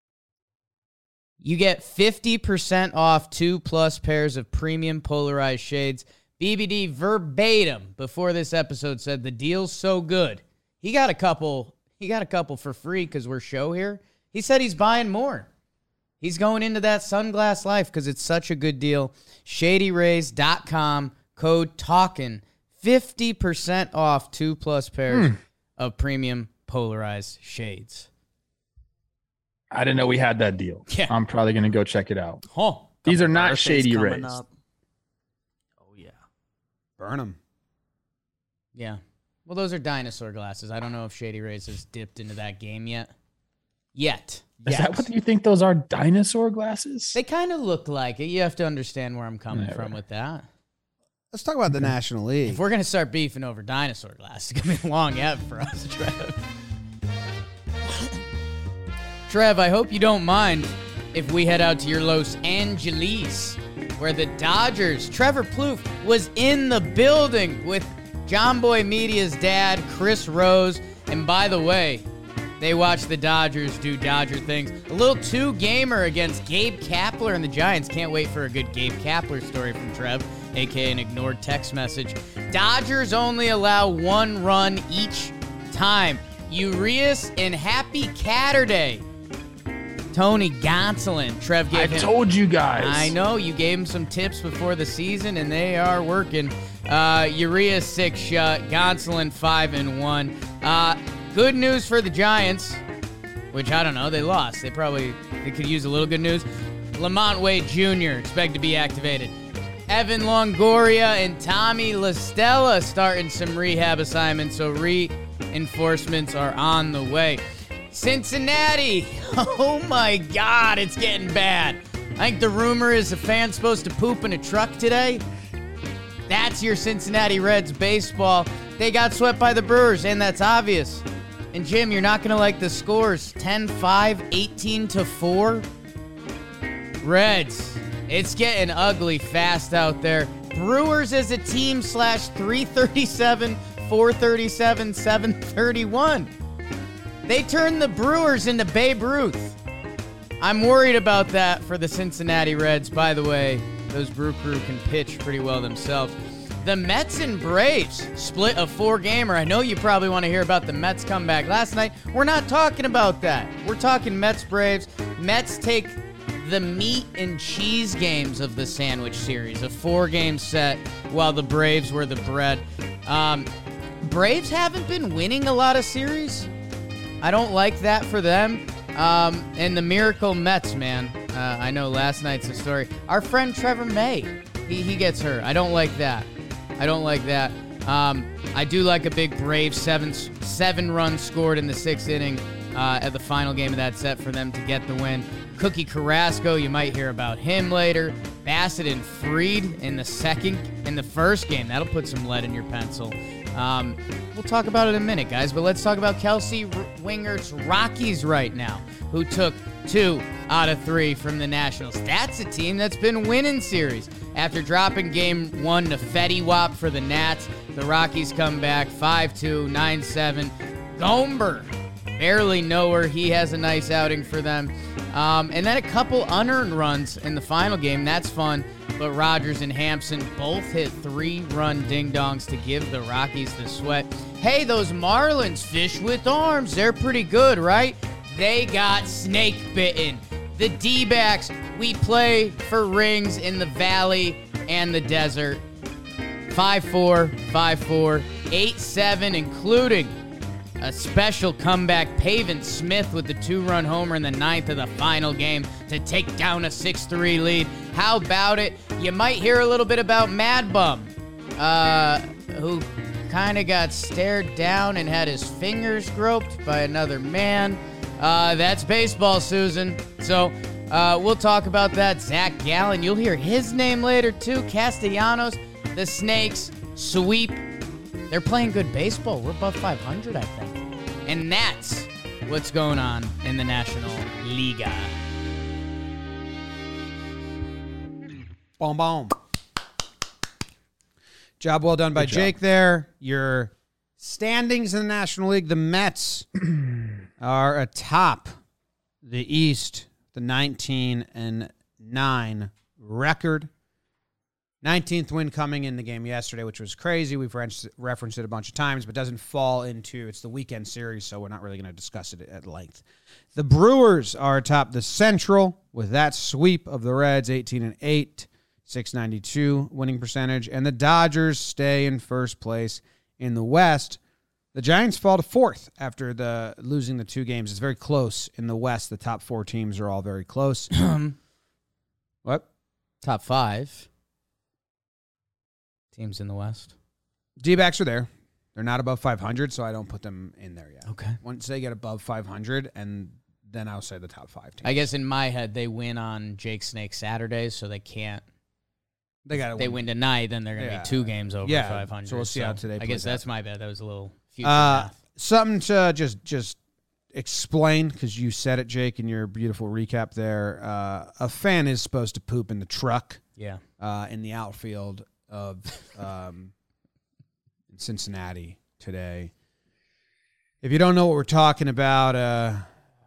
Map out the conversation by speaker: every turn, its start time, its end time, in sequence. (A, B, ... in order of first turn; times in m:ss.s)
0:01.4-0:15.5 A
0:16.2-0:28.1 A
0:25.1-0:25.4 B
0:29.7-0:32.4 B
0:30.9-0:31.1 A
0:32.5-0:32.9 A
0:33.0-0:34.4 B
0:33.0-0:34.5 C
0:35.8-0:36.2 C
0:37.0-0:37.4 D
0:38.7-0:43.1 A
0:43.9-0:44.4 A
0:44.6-0:45.1 D
0:44.7-0:47.2 B
0:47.1-0:50.4 A
0:49.5-0:50.0 B
0:51.3-0:52.6 D
0:52.4-0:56.4 A
0:59.3-1:12.0 A
1:12.6-1:29.0 A
1:30.1-1:32.1 A
1:31.7-1:33.1 B
1:32.8-1:42.8 A
1:43.5-1:49.3 A
1:49.9-2:05.2 A
2:06.3-2:15.6 A
2:17.0-2:26.3 A
2:27.2-2:29.6 A
2:30.4-2:53.5 A
2:54.0-2:56.5 A
2:57.2-4:05.6 A
4:06.5-4:10.1 A
4:10.8-4:37.6 A
4:38.3-4:45.2 A
4:48.8-4:49.4 D
4:51.6-4:56.5 D
4:52.2-4:52.5 B
4:57.4-4:58.6 D
4:59.2-5:03.7 D
5:04.8-5:24.2 D
5:24.7-5:30.9 D
5:31.0-5:31.4 A
5:33.2-5:34.1 A
5:36.1-5:36.9 A
5:37.6-5:45.1 D
5:41.1-5:41.4 A
5:44.8-5:48.4 A
5:49.4-5:50.0 D
5:49.8-5:55.1 A
5:50.8-5:53.4 D
5:54.6-5:56.8 D
5:57.3-6:03.4 D
6:03.6-6:03.8 A
6:04.0-6:06.7 D
6:07.9-6:09.5 D
6:10.8-6:12.9 D